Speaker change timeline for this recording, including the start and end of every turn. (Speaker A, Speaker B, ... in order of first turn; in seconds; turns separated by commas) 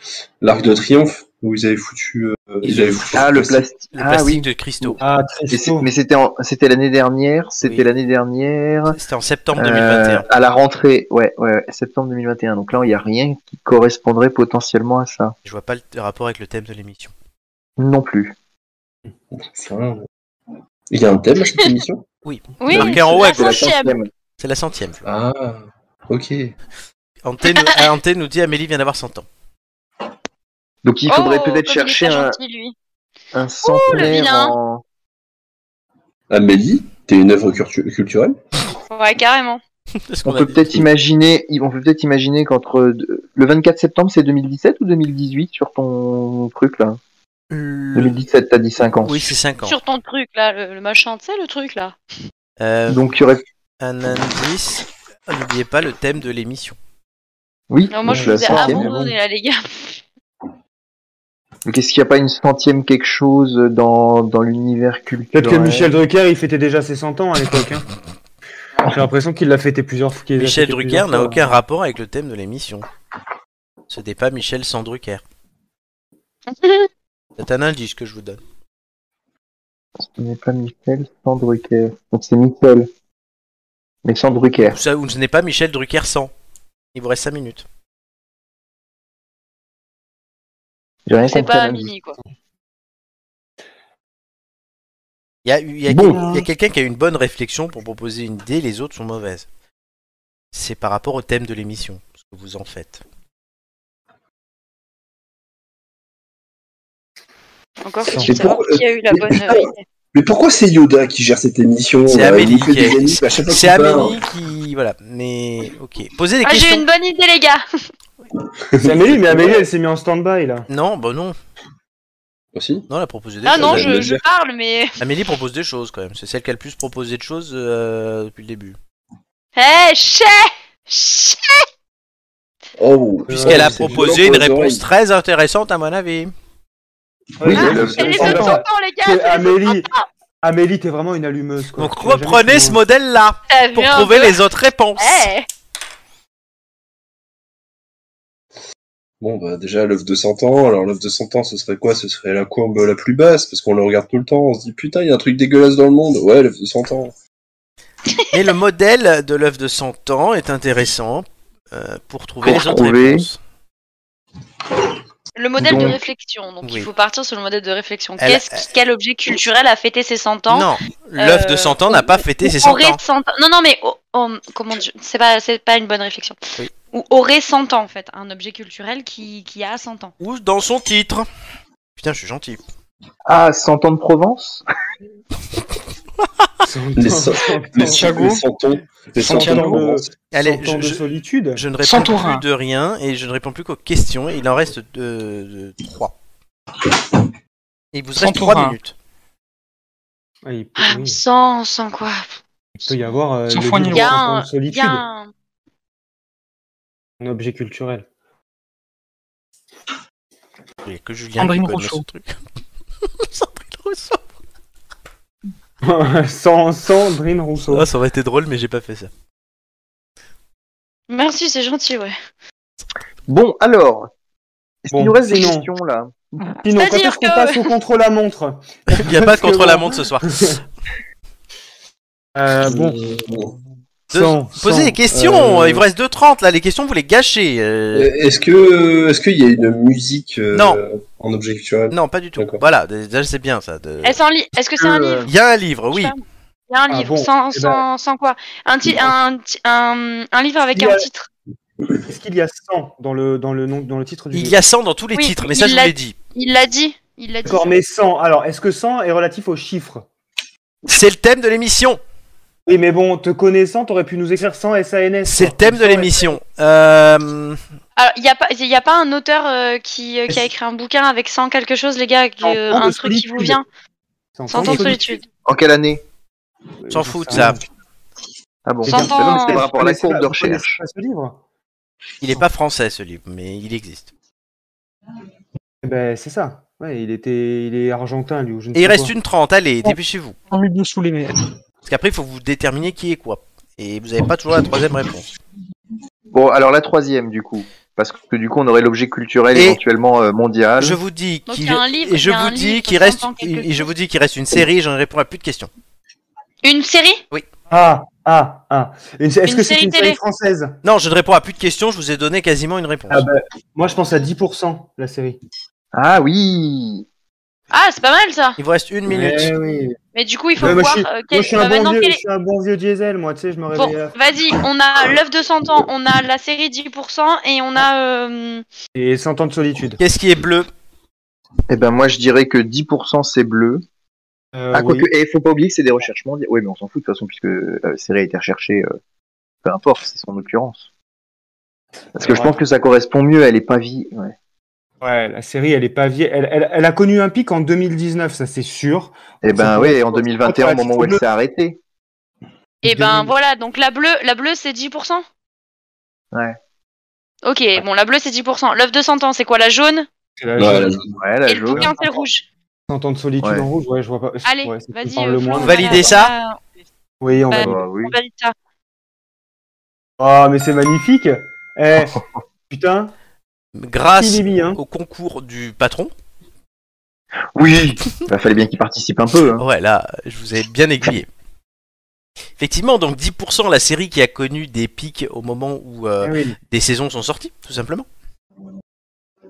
Speaker A: 0.4-3.6, Speaker B: 2.6-3.3, Speaker C: 3.1-5.0, Speaker B: 3.9-5.0, Speaker D: 5.0-5.9, Speaker C: 5.5-9.0, Speaker B: 7.6-7.9, Speaker B: 8.9-10.2, Speaker C: 9.5-15.3, Speaker B: 15.4-17.1, Speaker C: 17.8-18.3, Speaker A: 19.3-20.1, Speaker A: 20.9-22.0, Speaker B: 22.2-23.6, Speaker E: 22.6-23.9, Speaker C: 22.7-24.1, Speaker B: 24.4-25.0, Speaker A: 25.0-26.5, Speaker B: 27.2-29.3, Speaker E: 27.5-27.8, Speaker C: 30.8-32.4, Speaker E: 31.1-32.7, Speaker C: 33.3-34.8, Speaker E: 33.6-34.5, Speaker A: 36.3-38.4, Speaker E: 38.9-39.6, Speaker B: 40.1-40.8, Speaker C: 40.2-47.0, Speaker B: 47.5-48.2, Speaker C: 47.9-49.4, Speaker B: 49.0-49.7, Speaker E: 49.6-52.0, Speaker B: 52.6-53.0, Speaker C: 52.9-53.4, Speaker B: 53.8-56.8, Speaker C: 57.7-58.9, Speaker E: 57.9-60.0, Speaker D: 58.1-59.1, Speaker C: 61.6-65.9, Speaker D: 65.3-67.8, Speaker D: 68.8-71.5, Speaker B: 70.4-72.9, Speaker B: 73.9-75.2, Speaker E: 76.5-76.9, Speaker B: 77.4-78.4, Speaker C: 80.0-82.9, Speaker C: 84.0-84.8, Speaker B: 84.6-86.3, Speaker B: 86.9-87.6, Speaker C: 91.1-91.9, Speaker E: 91.2-92.2, Speaker B: 95.4-99.5, Speaker C: 95.9-96.4, Speaker B: 100.5-103.0, Speaker E: 107.8-109.8, Speaker D: 108.0-108.3, Speaker A: 108.2-114.2, Speaker B: 112.0-116.8, Speaker E: 116.4-117.6, Speaker D: 118.7-120.7, Speaker A: 118.8-119.6, Speaker B: 120.7-121.4, Speaker A: 122.5-122.9, Speaker B: 122.9-123.9, Speaker E: 123.4-125.0, Speaker A: 123.5-124.2, Speaker B: 125.0-128.8, Speaker E: 129.6-131.7, Speaker A: 132.8-134.8, Speaker D: 133.3-134.1, Speaker B: 133.4-136.3, Speaker D: 137.4-139.9, Speaker A: 137.4-138.4, Speaker E: 137.5-140.0, Speaker C: 137.5-138.5, Speaker D: 140.4-142.8, Speaker B: 141.8-145.3, Speaker E: 143.5-144.4, Speaker E: 145.0-145.5, Speaker A: 149.2-157.1, Speaker B: 158.3-163.4, Speaker C: 162.4-163.3, Speaker E: 165.3-180.1, Speaker C: 165.6-166.0, Speaker B: 166.6-166.9, Speaker B: 168.2-168.6, Speaker B: 170.5-173.0, Speaker B: 180.2-181.3, Speaker B: 182.0-182.6, Speaker C: 183.2-184.6, Speaker D: 186.6-188.3, Speaker A: 186.9-190.1, Speaker F: 188.0-188.4, Speaker F: 189.2-189.8, Speaker D: 189.2-191.6, Speaker B: 190.3-191.0, Speaker B: 191.5-196.1, Speaker F: 191.8-192.4, Speaker B: 197.9-198.9, Speaker F: 198.2-198.8, Speaker D: 200.4-201.2, Speaker E: 200.8-202.3, Speaker D: 202.8-205.0, Speaker F: 203.5-204.2, Speaker E: 203.9-205.3, Speaker D: 207.2-208.1, Speaker B: 210.8-212.4, Speaker F: 211.4-212.0, Speaker B: 213.2-214.2, Speaker D: 215.8-217.9, Speaker B: 217.7-219.1, Speaker E: 221.1-222.1, Speaker C: 223.3-224.1, Speaker C: 224.8-226.4, Speaker D: 224.9-225.7, Speaker D: 226.6-230.6, Speaker E: 226.7-227.7, Speaker B: 228.9-230.3, Speaker D: 232.3-233.2, Speaker A: 232.6-233.5, Speaker B: 234.1-238.1, Speaker D: 234.1-235.8, Speaker A: 237.9-242.6, Speaker B: 240.5-240.8, Speaker B: 241.9-244.2, Speaker E: 244.0-245.3, Speaker A: 244.8-245.3, Speaker B: 245.2-246.1, Speaker E: 245.9-251.3, Speaker D: 246.9-247.8, Speaker D: 250.7-251.1, Speaker D: 252.1-254.6, Speaker B: 254.3-256.1, Speaker E: 255.2-257.7, Speaker D: 257.4-260.1, Speaker B: 260.9-262.0, Speaker D: 262.7-266.4, Speaker B: 265.2-267.6, Speaker E: 268.0-273.6, Speaker D: 272.4-273.6, Speaker D: 274.4-275.1, Speaker E: 274.5-275.2, Speaker B: 274.6-274.9, Speaker C: 275.4-276.0, Speaker D: 276.8-277.6, Speaker B: 276.9-277.6, Speaker C: 278.6-280.8, Speaker D: 278.8-281.4, Speaker E: 278.9-279.6, Speaker B: 282.2-284.1, Speaker D: 285.8-289.1, Speaker B: 288.7-290.4, Speaker F: 290.5-291.5, Speaker B: 291.8-295.3, Speaker C: 296.3-301.0, Speaker B: 299.5-299.8, Speaker B: 300.8-305.7, Speaker E: 301.5-303.9, Speaker E: 306.6-307.2, Speaker D: 307.7-310.8, Speaker E: 309.4-310.2, Speaker B: 310.8-313.3, Speaker D: 313.1-315.4, Speaker C: 315.9-317.1, Speaker E: 317.7-318.6, Speaker B: 318.6-319.5, Speaker D: 319.1-320.0, Speaker E: 320.1-322.2, Speaker D: 320.6-324.1, Speaker E: 323.7-328.6, Speaker D: 328.9-330.0, Speaker B: 330.0-330.7, Speaker C: 331.7-333.8, Speaker D: 334.5-335.1, Speaker C: 334.7-338.9, Speaker C: 339.6-340.9, Speaker C: 342.1-344.3, Speaker D: 342.2-342.6, Speaker D: 345.0-351.2, Speaker C: 349.4-351.8, Speaker E: 352.8-355.2, Speaker D: 352.9-353.3, Speaker E: 357.4-360.1, Speaker D: 360.4-360.9, Speaker A: 360.6-361.1, Speaker C: 361.2-361.9, Speaker E: 361.4-362.4, Speaker D: 361.7-362.2, Speaker D: 362.9-366.1, Speaker C: 363.4-363.7, Speaker E: 364.4-366.6, Speaker B: 365.6-366.3, Speaker D: 367.2-367.8, Speaker E: 367.5-368.5, Speaker C: 367.5-368.1, Speaker D: 370.2-372.2, Speaker D: 372.7-373.1, Speaker B: 373.7-376.1, Speaker D: 374.1-374.8, Speaker C: 377.5-379.6, Speaker B: 379.6-381.3, Speaker B: 382.6-388.1, Speaker D: 386.2-386.6